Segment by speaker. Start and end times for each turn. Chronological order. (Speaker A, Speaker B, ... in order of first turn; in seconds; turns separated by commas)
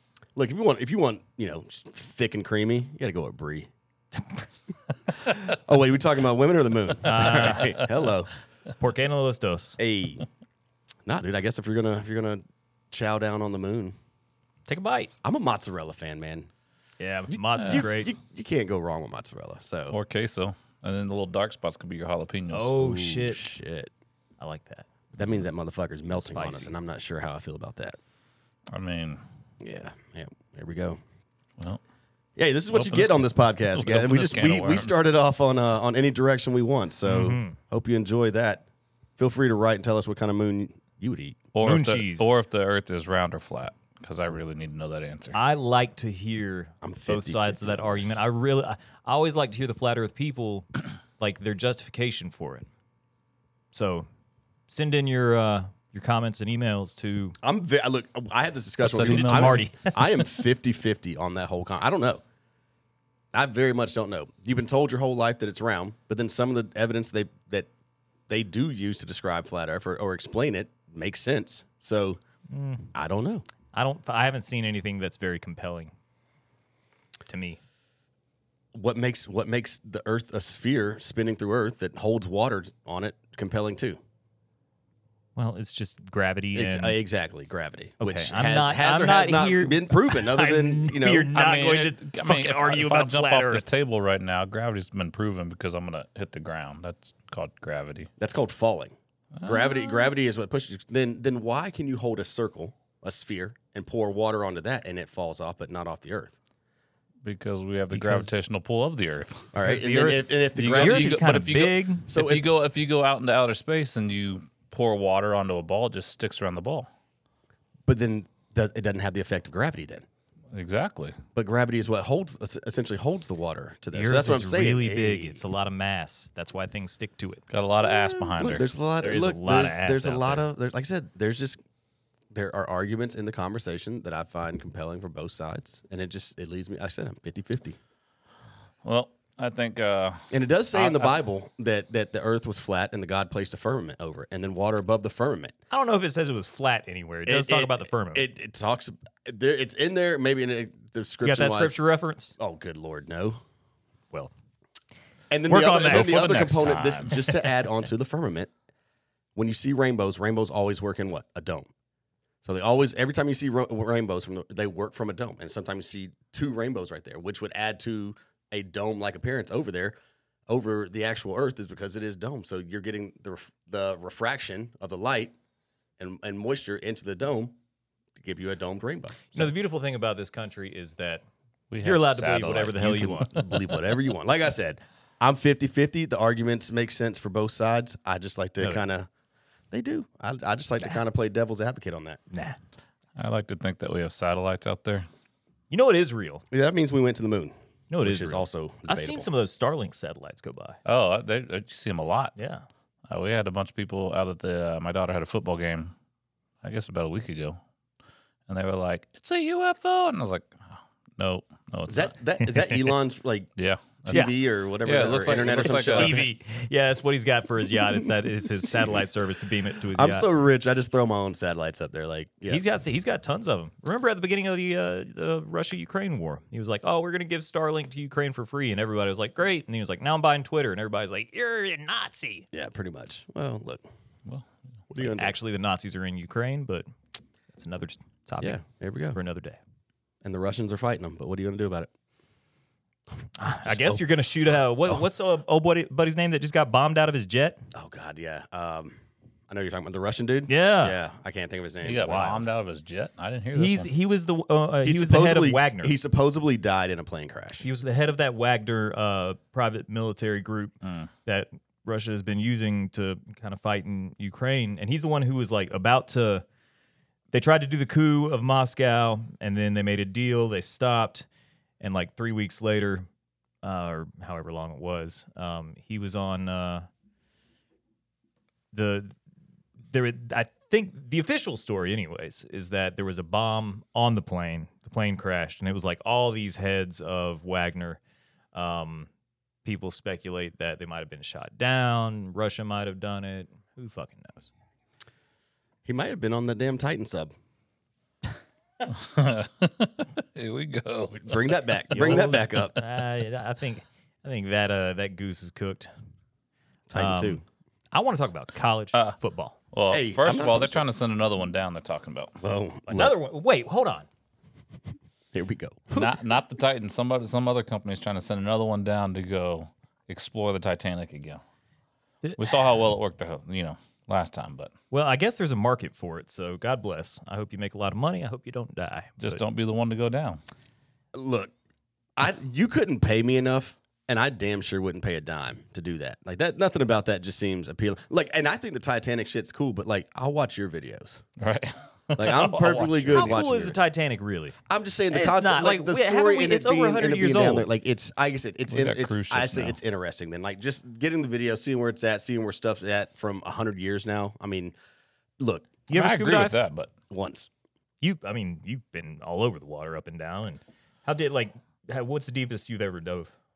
Speaker A: 0.3-3.7, Speaker A: 5.3-8.3, Speaker B: 7.0-7.8, Speaker B: 8.8-9.8, Speaker A: 9.8-10.2, Speaker A: 11.0-13.9, Speaker B: 14.7-15.1, Speaker A: 15.2-16.5, Speaker B: 17.0-18.1, Speaker A: 17.3-20.0, Speaker C: 17.6-17.8, Speaker C: 19.9-22.9, Speaker B: 22.5-23.5, Speaker A: 22.9-23.9, Speaker B: 24.4-24.9, Speaker A: 25.1-28.0, Speaker B: 26.1-26.8, Speaker C: 28.7-29.2, Speaker A: 29.6-31.0, Speaker A: 32.4-38.6, Speaker C: 32.7-35.0, Speaker B: 37.0-37.6, Speaker A: 39.2-41.4, Speaker C: 41.5-45.4, Speaker B: 41.6-42.3, Speaker B: 45.3-52.7, Speaker A: 46.8-48.2, Speaker B: 53.7-54.1, Speaker B: 54.7-57.4, Speaker A: 57.4-62.2, Speaker C: 58.8-59.7, Speaker B: 58.9-60.1, Speaker A: 63.3-67.7, Speaker A: 68.3-72.2, Speaker B: 72.5-72.9, Speaker A: 72.9-73.5, Speaker B: 73.7-75.9, Speaker B: 77.3-77.6, Speaker A: 78.7-84.0, Speaker B: 85.3-87.0, Speaker A: 86.5-91.3, Speaker B: 88.0-93.7, Speaker C: 91.3-98.1, Speaker A: 98.2-106.3, Speaker C: 99.4-99.8, Speaker C: 107.2-109.5, Speaker B: 107.9-108.3, Speaker A: 109.5-111.2, Speaker B: 109.6-112.1, Speaker C: 110.5-116.9, Speaker A: 112.1-112.5, Speaker A: 117.9-120.0, Speaker C: 120.5-121.2, Speaker A: 121.3-125.4, Speaker B: 123.9-127.4, Speaker C: 127.5-128.7, Speaker A: 127.8-131.6, Speaker B: 129.0-130.4, Speaker A: 132.3-137.8, Speaker C: 138.8-141.1, Speaker A: 140.3-145.5, Speaker B: 145.7-148.2, Speaker A: 147.2-151.8, Speaker B: 151.2-152.3, Speaker A: 152.4-153.4, Speaker A: 155.3-158.5, Speaker B: 155.5-156.2, Speaker C: 155.7-157.2, Speaker A: 159.3-161.7, Speaker A: 162.4-169.9, Speaker A: 170.5-175.3, Speaker A: 176.0-177.5, Speaker A: 178.2-179.5, Speaker B: 179.3-181.2, Speaker C: 181.7-183.1, Speaker B: 181.8-183.8, Speaker A: 182.8-189.1, Speaker A: 189.7-192.2, Speaker B: 192.3-192.6, Speaker C: 193.2-195.1, Speaker B: 195.7-196.4, Speaker A: 196.5-199.3, Speaker B: 197.9-200.8, Speaker C: 200.8-202.3, Speaker B: 202.3-202.6, Speaker C: 203.1-205.9, Speaker C: 206.6-207.6, Speaker C: 208.5-212.1, Speaker A: 211.9-213.5, Speaker B: 212.4-212.9, Speaker C: 213.6-216.2, Speaker A: 214.0-216.3, Speaker B: 215.4-220.3, Speaker A: 217.7-219.0, Speaker A: 219.9-222.6, Speaker B: 222.5-232.5, Speaker A: 232.5-233.8, Speaker A: 234.9-235.3, Speaker B: 235.0-236.9, Speaker B: 237.5-239.6, Speaker A: 238.4-239.2, Speaker A: 240.2-241.9, Speaker B: 243.3-247.6, Speaker A: 243.6-244.0, Speaker A: 247.7-249.0, Speaker A: 249.5-252.5, Speaker B: 250.5-251.0, Speaker C: 251.8-253.9, Speaker B: 252.1-252.4, Speaker B: 253.5-255.9, Speaker A: 254.8-257.6, Speaker B: 257.6-266.4, Speaker C: 260.8-261.1, Speaker B: 267.3-271.2, Speaker B: 271.8-273.1, Speaker B: 273.6-276.9, Speaker B: 278.7-279.1, Speaker B: 279.9-288.0, Speaker B: 288.5-289.1, Speaker B: 289.6-294.5, Speaker A: 295.8-297.3, Speaker C: 298.9-302.3, Speaker A: 301.1-302.8, Speaker B: 301.9-305.9, Speaker A: 306.9-307.4, Speaker B: 306.9-309.6, Speaker C: 309.7-312.4, Speaker A: 309.9-310.8, Speaker A: 312.4-313.1, Speaker B: 312.9-314.1, Speaker A: 315.3-315.9, Speaker C: 315.9-321.4, Speaker B: 322.2-322.5, Speaker C: 322.4-324.7, Speaker B: 324.9-329.4, Speaker C: 329.2-330.4, Speaker A: 331.1-331.5, Speaker A: 332.2-341.2, Speaker C: 341.4-343.4, Speaker A: 342.2-343.8, Speaker B: 343.1-344.6, Speaker A: 344.7-354.7, Speaker B: 345.1-347.7, Speaker C: 348.7-349.8, Speaker A: 355.4-355.8, Speaker B: 355.9-356.6, Speaker C: 355.9-356.9, Speaker A: 357.1-357.5, Speaker B: 358.0-363.3